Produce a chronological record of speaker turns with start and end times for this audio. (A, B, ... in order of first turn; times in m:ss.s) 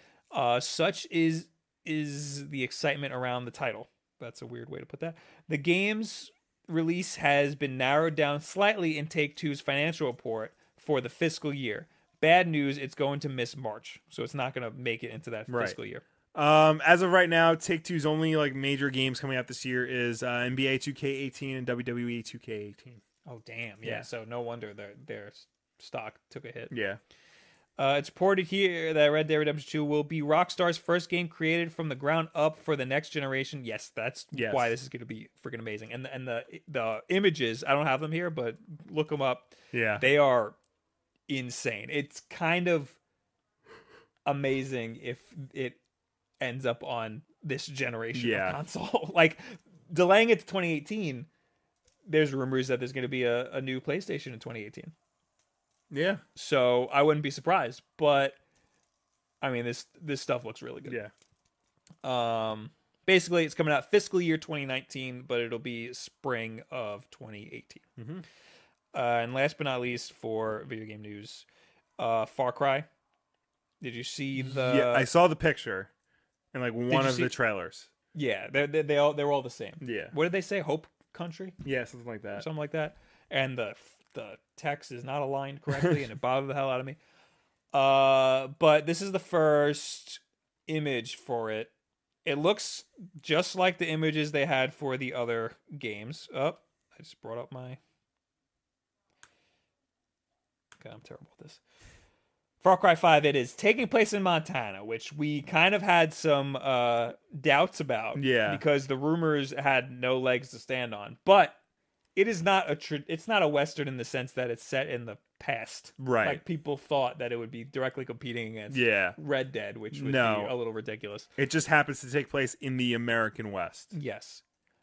0:00.3-0:16.0 A
0:15.5-0:15.8 B
0:16.4-0:23.0 B
0:23.3-0:26.7 A
0:26.7-0:27.0 B
0:27.8-0:40.6 A
0:34.3-0:34.7 B
0:39.7-0:40.0 B
0:41.3-0:43.0 A
0:44.3-0:45.8 A
0:46.4-0:51.3 A
0:48.1-0:48.6 B
0:52.1-0:54.9 A
0:55.9-0:56.2 B
0:56.4-0:58.4 A
0:59.4-1:01.0 A
1:00.9-1:01.1 B
1:02.0-1:07.8 A
1:08.0-1:08.2 B
1:08.9-1:11.5 A
1:12.0-1:12.9 A
1:13.8-1:15.1 A
1:14.4-1:15.9 B
1:16.5-1:17.9 B
1:16.9-1:17.4 A
1:18.1-1:21.6 A
1:19.8-1:20.1 B
1:21.6-1:22.5 B
1:22.4-1:27.0 A
1:27.7-1:31.7 A
1:32.2-1:37.8 A
1:40.8-1:41.6 A
1:42.6-1:51.6 A
1:48.2-1:48.6 B
1:52.2-2:01.3 A
1:56.0-1:56.4 B
1:58.7-1:59.2 B
1:59.9-2:00.5 B
2:01.4-2:03.9 B
2:03.9-2:04.4 A